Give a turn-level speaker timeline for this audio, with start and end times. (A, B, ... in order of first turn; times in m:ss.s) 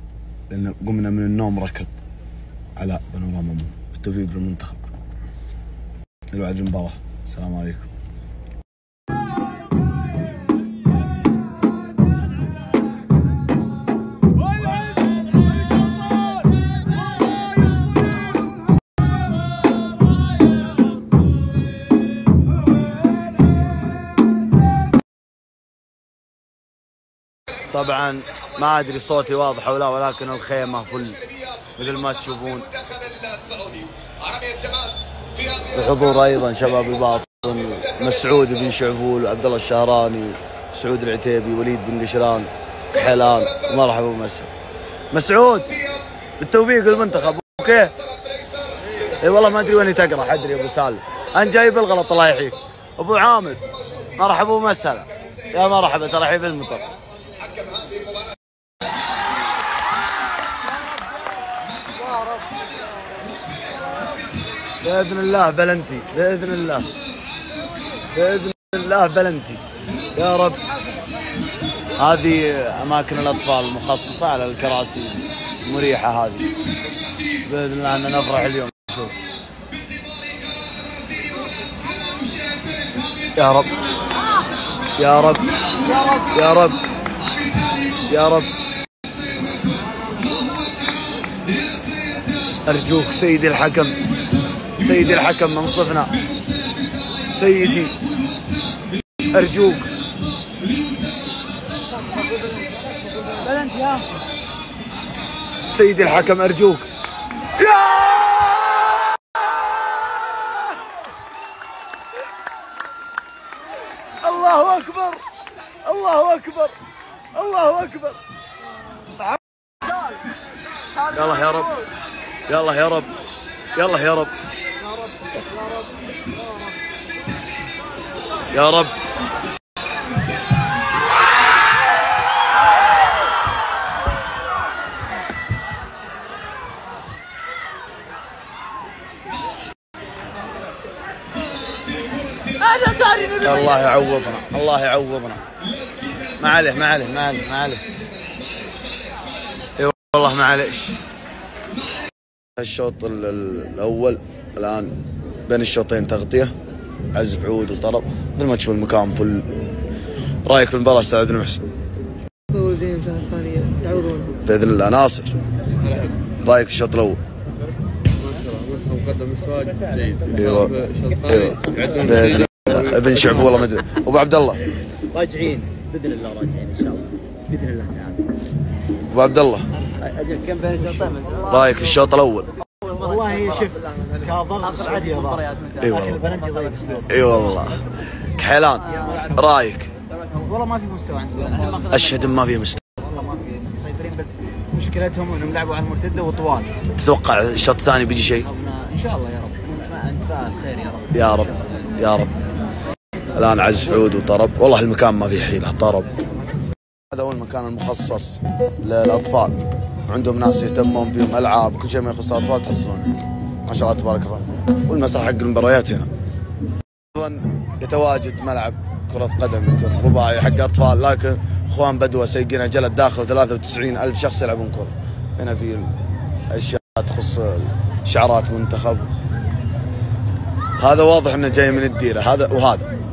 0:00.5-0:01.9 A
0:02.8-0:04.9 A
0:06.3-0:07.9 A
0:27.7-0:31.2 A
0:31.8-0:32.7 A
0:35.7-0:44.5 A
0:45.1-0:45.8 A
0:46.4-0:47.9 A
0:49.2-0:53.6 A
0:54.2-0:56.9 A
1:04.8-1:06.9 A
1:08.1-1:09.6 A
1:10.2-1:10.6 A
1:12.0-1:16.5 A
1:17.4-1:19.1 A
1:23.4-1:23.7 A
1:25.0-1:25.4 A
1:26.1-1:26.8 A
1:28.1-1:28.5 A
1:32.6-1:34.0 A
1:34.8-1:36.2 A
1:37.3-1:37.9 A
1:39.3-1:39.9 A
1:45.7-1:46.8 A
1:47.6-1:48.9 A
1:54.2-1:55.2 A
1:55.8-1:56.7 A
1:57.3-1:58.2 A
2:01.1-2:01.8 A
2:02.5-2:03.1 A
2:03.8-2:04.3 A
2:08.5-2:09.0 A
2:23.0-2:25.4 A
2:26.4-2:27.8 A
2:29.8-2:31.0 A
2:32.6-2:34.9 A
2:35.5-2:36.5 A
2:37.1-2:39.4 A
2:40.4-2:41.6 A
2:44.4-2:45.3 A
2:46.4-2:47.2 A
2:50.3-2:54.6 A
2:55.1-2:58.2 B
2:59.1-2:59.7 A
3:00.0-3:01.4 B
3:01.4-3:02.5 A
3:02.8-3:07.1 B
3:05.8-3:06.4 A
3:07.1-3:07.8 A
3:08.4-3:09.9 A
3:10.4-3:11.9 B
3:11.9-3:13.0 A
3:13.2-3:16.7 B
3:17.0-3:18.5 A
3:18.5-3:21.1 B
3:21.1-3:22.3 A
3:23.4-3:26.1 A
3:27.1-3:36.1 A
3:37.1-3:45.9 A
3:46.5-3:49.1 A
3:50.8-3:52.8 A